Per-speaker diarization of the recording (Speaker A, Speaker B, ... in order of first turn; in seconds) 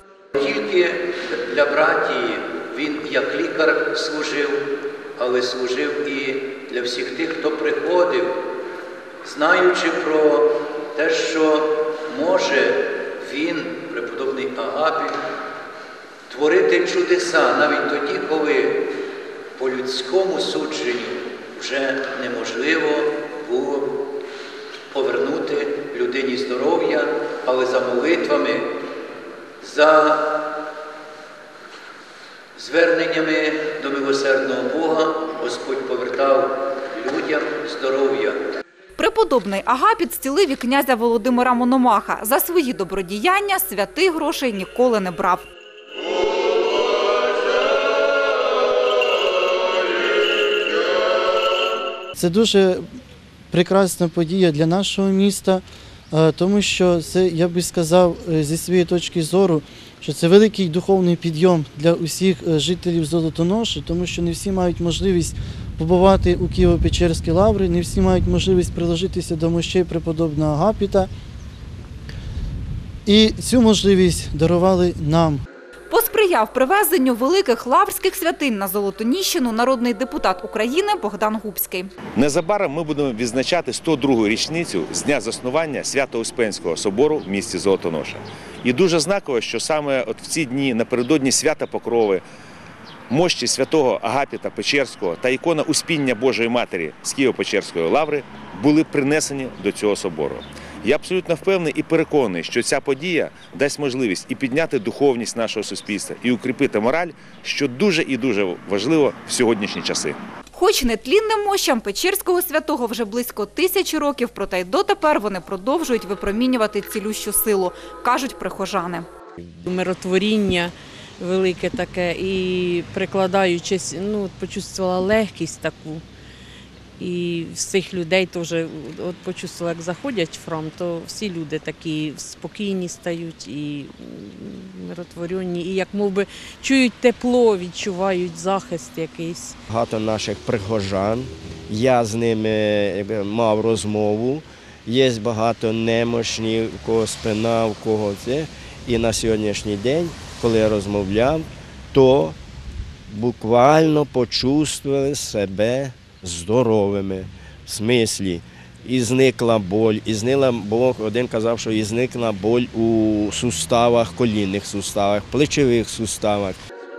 Speaker A: 0.4-4.6, 5.2-8.3, 9.2-15.2, 16.3-18.8, 19.6-23.9, 24.9-28.7, 29.6-30.2, 32.5-38.4
Speaker B: 39.0-45.5, 75.9-81.9, 110.5-119.0
Speaker C: 52.1-52.8, 53.5-71.1, 73.0-75.4
Speaker D: 82.2-92.2, 93.1-110.2
Speaker E: 119.6-126.0, 127.0-139.6
Speaker F: 139.7-152.4, 153.1-166.6